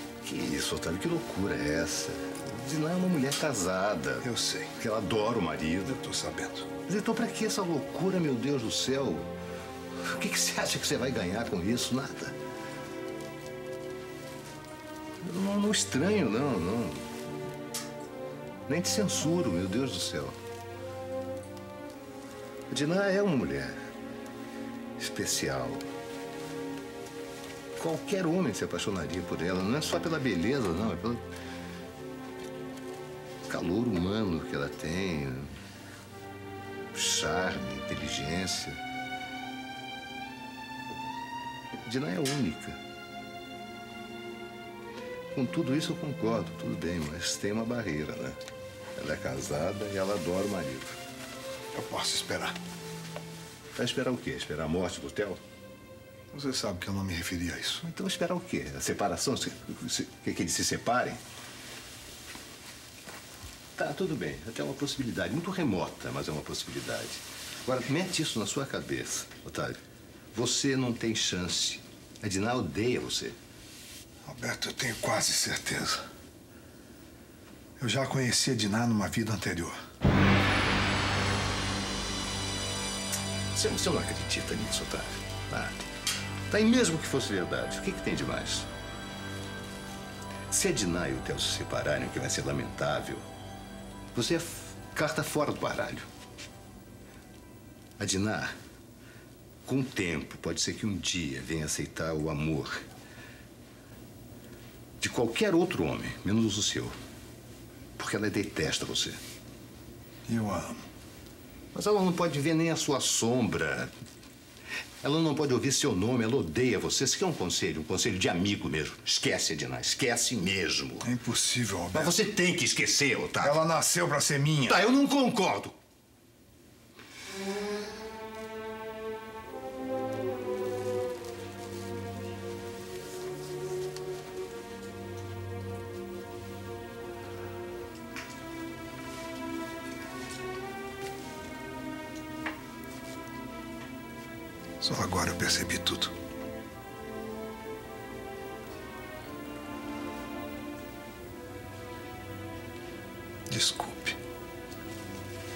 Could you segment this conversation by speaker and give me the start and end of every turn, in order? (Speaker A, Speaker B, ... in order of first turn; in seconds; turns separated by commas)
Speaker A: 0.2-6.0, Speaker B: 4.2-4.7, Speaker B: 5.8-6.7, Speaker A: 6.9-9.3, Speaker A: 10.0-12.4, Speaker A: 15.2-17.2, Speaker A: 18.7-20.4, Speaker A: 22.7-23.8, Speaker A: 25.0-25.9, Speaker A: 27.8-31.2, Speaker A: 33.5-35.6, Speaker A: 36.9-38.8, Speaker A: 41.8-42.8, Speaker A: 45.3-48.4, Speaker A: 49.0-51.0, Speaker B: 51.7-52.6, Speaker A: 53.8-55.4, Speaker B: 56.3-57.9, Speaker A: 57.8-61.2, Speaker A: 63.8-69.8, Speaker A: 70.3-73.4, Speaker B: 74.2-76.0, Speaker B: 77.8-79.8, Speaker A: 83.5-85.8, Speaker A: 86.5-88.7, Speaker A: 90.5-93.3, Speaker A: 94.1-96.1, Speaker A: 98.0-98.5, Speaker A: 99.7-102.8, Speaker A: 105.0-107.0, Speaker A: 108.0-109.2, Speaker B: 110.3-110.8, Speaker A: 111.7-113.9, Speaker A: 115.0-121.1, Speaker B: 121.0-122.2, Speaker A: 121.9-123.6, Speaker B: 123.4-124.8, Speaker A: 124.7-125.8, Speaker B: 144.8-146.1, Speaker B: 153.5-154.2